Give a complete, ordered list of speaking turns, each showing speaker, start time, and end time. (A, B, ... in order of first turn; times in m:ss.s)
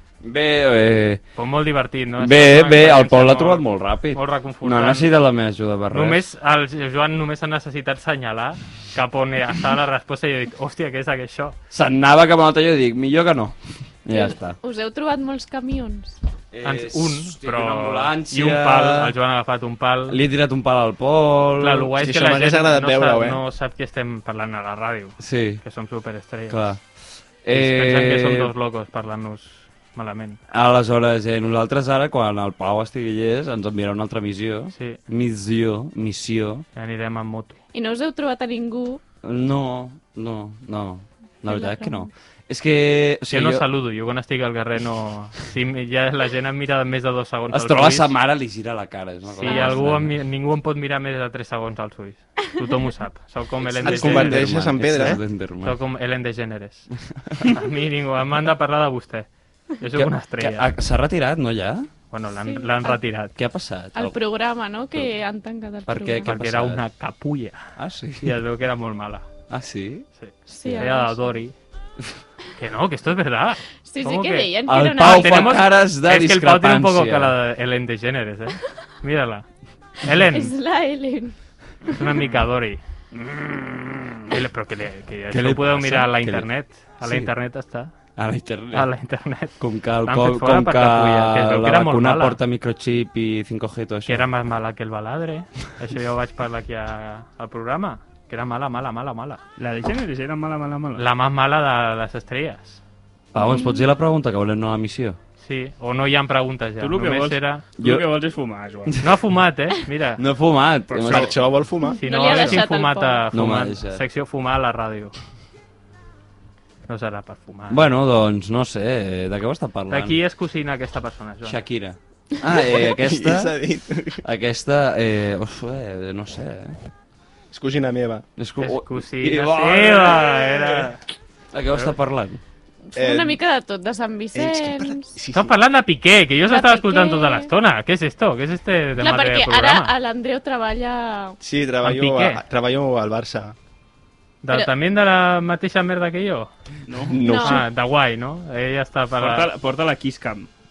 0:00.2-0:01.2 A
0:01.4-0:05.2 B
0:02.2-0:06.2 A
0:05.9-0:11.6 B
0:11.7-0:14.6 A
0:14.1-0:16.2 C
0:16.5-0:19.2 A
0:16.6-0:20.2 B
0:20.1-0:21.9 A
0:21.6-0:26.8 B
0:22.0-0:23.4 D
0:25.2-0:25.6 A
0:26.5-0:26.8 A
0:27.4-0:28.5 A
0:27.5-0:30.4 B
0:30.5-0:36.6 A
0:34.7-0:35.0 B
0:36.8-0:37.6 B
0:37.7-0:39.0 C
0:39.2-0:43.7 A
0:41.4-0:42.1 C
0:43.3-0:48.2 B
0:47.5-0:50.2 A
0:49.3-0:56.9 B
0:49.4-0:49.9 C
0:53.7-0:55.8 A
0:53.8-0:55.2 D
0:57.4-0:59.3 B
0:59.8-1:00.7 B
1:00.0-1:01.9 A
1:02.1-1:03.4 B
1:02.4-1:03.0 C
1:03.4-1:04.2 A
1:03.9-1:06.3 C
1:05.9-1:06.8 A
1:06.2-1:09.3 B
1:07.8-1:08.4 A
1:09.5-1:10.1 A
1:10.2-1:11.6 B
1:10.5-1:11.4 C
1:10.6-1:11.0 A
1:12.6-1:19.5 B
1:13.8-1:15.6 C
1:14.7-1:17.4 A
1:20.0-1:20.5 B
1:20.3-1:21.4 C
1:21.9-1:22.8 B
1:23.3-1:23.9 A
1:24.3-1:27.9 B
1:25.3-1:26.5 A
1:27.0-1:27.3 A
1:28.2-1:28.9 A
1:28.7-1:32.4 B
1:29.6-1:34.3 A
1:34.1-1:39.4 B
1:39.6-1:41.1 E
1:41.0-1:42.8 B
1:43.3-1:45.2 A
1:43.4-1:43.8 C
1:45.4-1:47.7 B
1:46.8-1:48.9 E
1:47.8-1:48.1 A
1:48.9-1:49.2 A
1:49.0-1:50.2 B
1:50.2-1:51.4 A
1:51.0-1:52.0 D
1:51.0-1:51.3 B
1:51.8-1:53.3 C
1:51.9-1:55.2 B
1:53.3-1:54.0 A
1:56.9-1:57.9 B
1:57.7-2:00.2 A
1:59.9-2:01.6 B
2:01.4-2:03.6 A
2:02.5-2:04.2 D
2:04.2-2:06.8 A
2:07.5-2:08.3 D
2:08.4-2:10.5 A
2:08.6-2:11.0 B
2:11.5-2:12.4 A
2:12.9-2:15.2 C
2:13.0-2:13.4 D
2:14.3-2:15.6 D
2:15.3-2:19.9 B
2:16.5-2:17.5 C
2:19.0-2:21.4 C
2:21.4-2:23.6 D
2:21.8-2:22.4 B
2:24.4-2:26.5 B
2:26.9-2:27.2 E
2:27.1-2:27.6 D
2:27.2-2:27.6 C
2:27.2-2:29.5 B
2:29.2-2:30.5 E